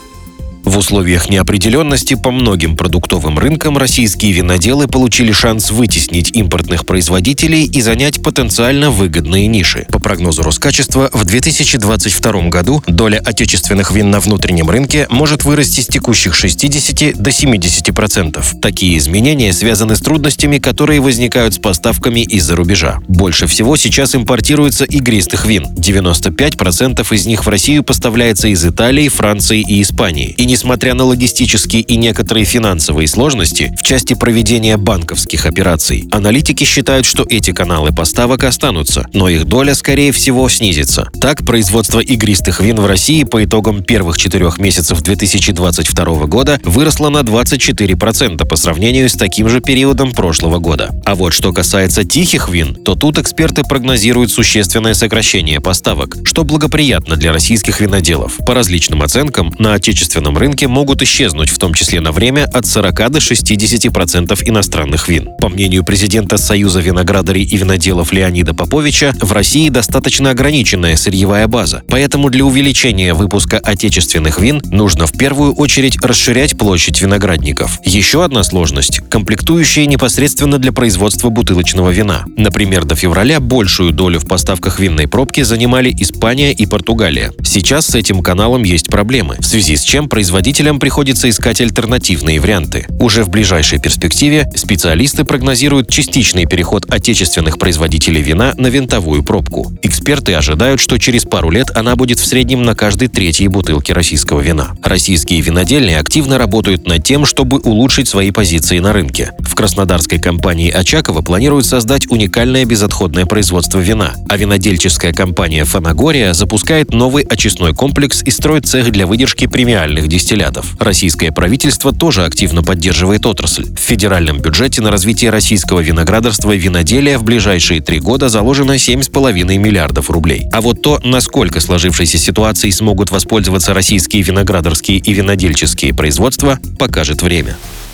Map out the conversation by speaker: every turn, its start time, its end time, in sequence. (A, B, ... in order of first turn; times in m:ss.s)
0:00.7-2:17.6 A